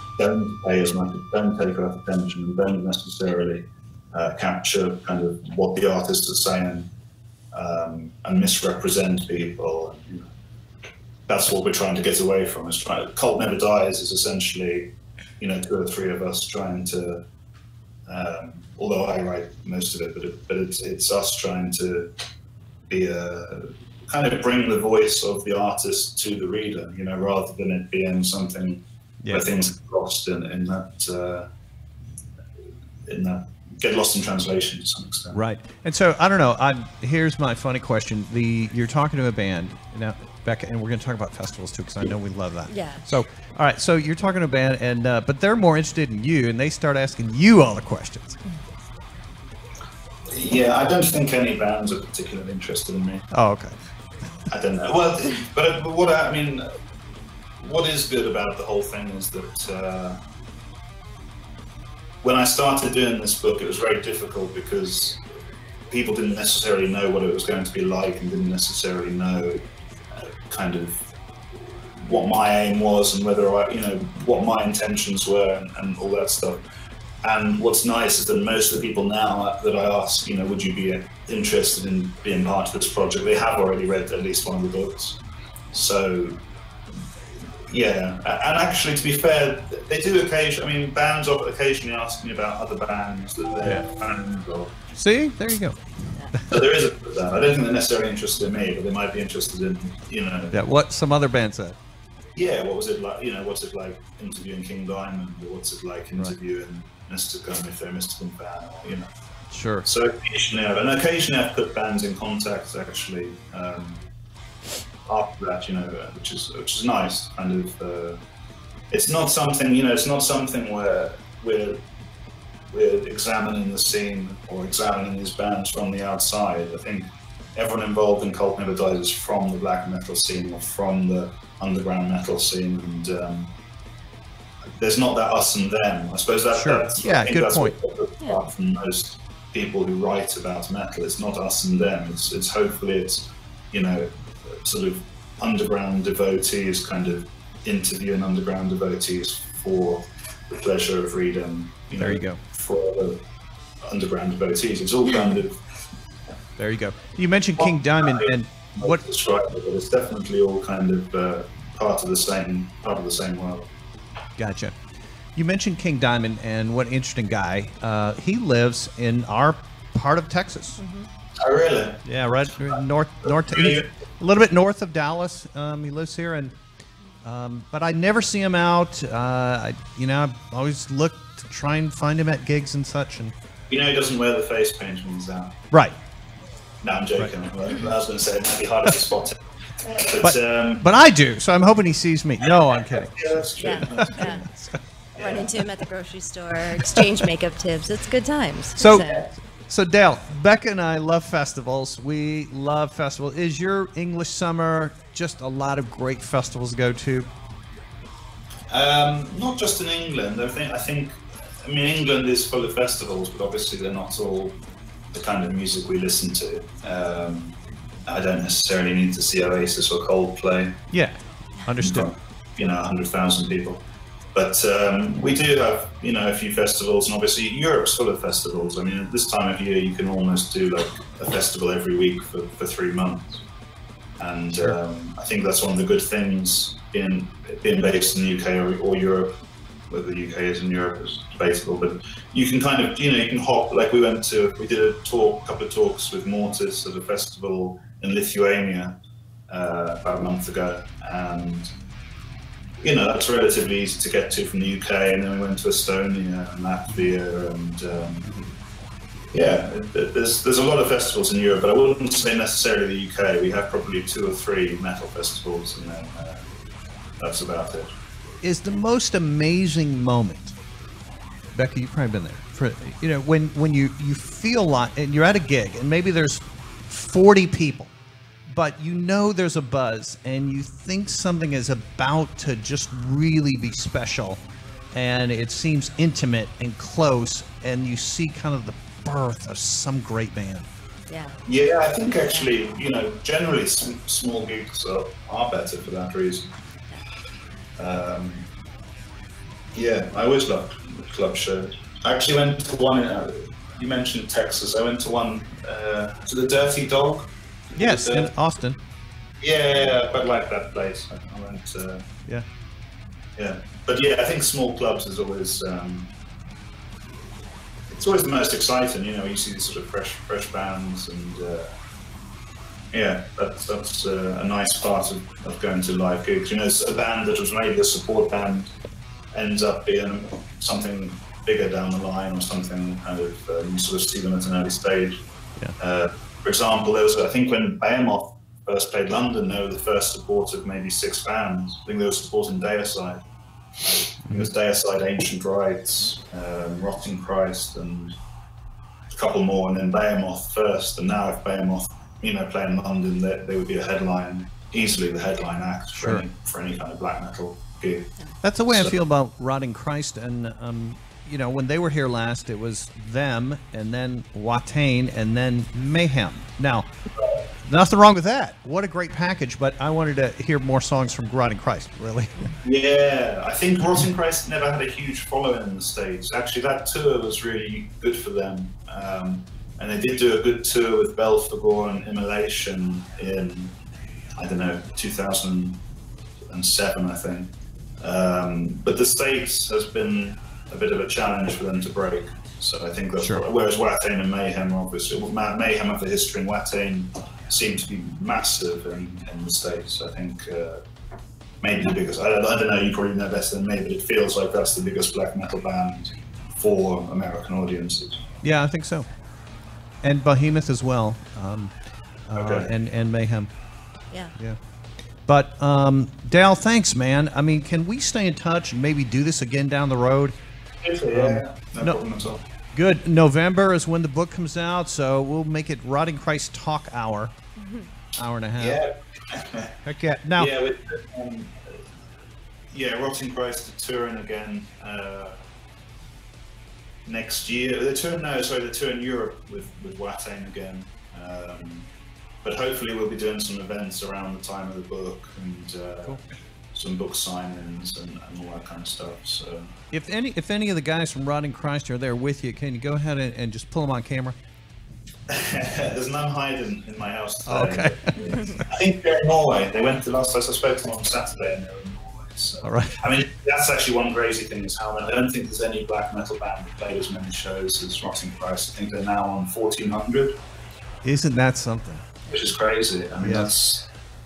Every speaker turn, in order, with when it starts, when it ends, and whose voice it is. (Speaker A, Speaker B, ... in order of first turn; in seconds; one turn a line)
Speaker A: 0.2-6.9
Speaker A: 7.5-10.3
Speaker A: 11.3-17.2
Speaker A: 18.1-22.1
Speaker A: 22.9-31.5
Speaker B: 29.2-29.5
Speaker A: 33.1-35.4
Speaker B: 35.3-48.4
Speaker C: 42.7-43.0
Speaker A: 50.3-53.2
Speaker B: 53.3-53.8
Speaker A: 54.5-56.6
Speaker A: 57.6-60.2
Speaker A: 62.2-65.2
Speaker A: 65.9-69.6
Speaker A: 70.1-71.0
Speaker A: 72.0-76.6
Speaker A: 77.2-85.2
Speaker A: 85.7-86.3
Speaker A: 87.7-94.8
Speaker B: 94.9-95.8
Speaker B: 96.3-96.6
Speaker A: 96.5-100.6
Speaker B: 100.5-101.8
Speaker A: 102.3-109.1
Speaker B: 109.5-109.8
Speaker A: 109.8-114.0
Speaker A: 115.1-118.2
Speaker A: 118.9-121.8
Speaker A: 122.7-133.5
Speaker A: 134.8-153.2
Speaker B: 136.5-137.7
Speaker B: 152.0-152.4
Speaker A: 153.8-155.6
Speaker B: 156.6-159.0
Speaker A: 157.6-163.7
Speaker B: 164.4-164.7
Speaker B: 165.3-170.8
Speaker C: 170.8-171.1
Speaker A: 171.4-172.0
Speaker B: 172.1-176.5
Speaker A: 172.6-173.9
Speaker B: 177.2-183.3
Speaker A: 183.7-185.6
Speaker A: 186.8-190.8
Speaker B: 190.2-193.1
Speaker A: 192.8-194.3
Speaker C: 193.6-194.5
Speaker B: 193.8-194.8
Speaker A: 195.2-195.5
Speaker C: 195.2-199.3
Speaker B: 196.7-197.2
Speaker B: 198.8-207.3
Speaker A: 208.7-214.6
Speaker A: 215.1-217.5
Speaker A: 218.1-220.8
Speaker B: 220.9-222.1
Speaker A: 221.8-223.8
Speaker A: 224.3-233.4
Speaker A: 234.2-239.3
Speaker A: 239.9-248.9
Speaker A: 249.5-251.7
Speaker A: 252.8-258.3
Speaker A: 259.3-266.4
Speaker A: 267.2-267.9
Speaker B: 268.4-270.5
Speaker B: 271.5-277.9
Speaker B: 278.5-284.4
Speaker B: 284.9-290.7
Speaker C: 291.1-291.4
Speaker A: 291.5-296.5
Speaker C: 292.2-292.5
Speaker A: 297.8-298.4
Speaker A: 299.7-308.3
Speaker B: 307.8-308.8
Speaker A: 309.4-312.0
Speaker A: 313.4-316.1
Speaker A: 317.9-321.7
Speaker A: 322.9-328.7
Speaker A: 329.3-335.2
Speaker A: 335.8-343.2
Speaker A: 343.8-348.1
Speaker A: 349.1-358.1
Speaker B: 355.9-356.2
Speaker B: 358.4-366.9
Speaker B: 367.6-372.5
Speaker A: 372.6-383.7
Speaker A: 384.4-385.8
Speaker A: 386.5-400.8
Speaker B: 393.2-393.4
Speaker A: 401.6-408.2
Speaker B: 408.4-409.1
Speaker B: 410.0-411.7
Speaker B: 412.3-413.5
Speaker A: 412.3-412.7
Speaker C: 414.1-414.4
Speaker B: 415.3-420.3
Speaker A: 420.8-422.4
Speaker B: 421.1-422.0
Speaker B: 422.7-427.3
Speaker C: 427.6-427.9
Speaker B: 428.2-428.8
Speaker A: 428.6-429.7
Speaker B: 429.8-430.5
Speaker A: 430.4-431.8
Speaker A: 432.7-435.4
Speaker A: 437.0-441.9
Speaker A: 442.4-446.2
Speaker A: 446.7-449.7
Speaker B: 449.9-454.4
Speaker A: 455.3-470.3
Speaker B: 457.4-458.5
Speaker B: 462.6-463.0
Speaker B: 471.0-472.0
Speaker A: 472.3-473.9
Speaker B: 473.2-473.5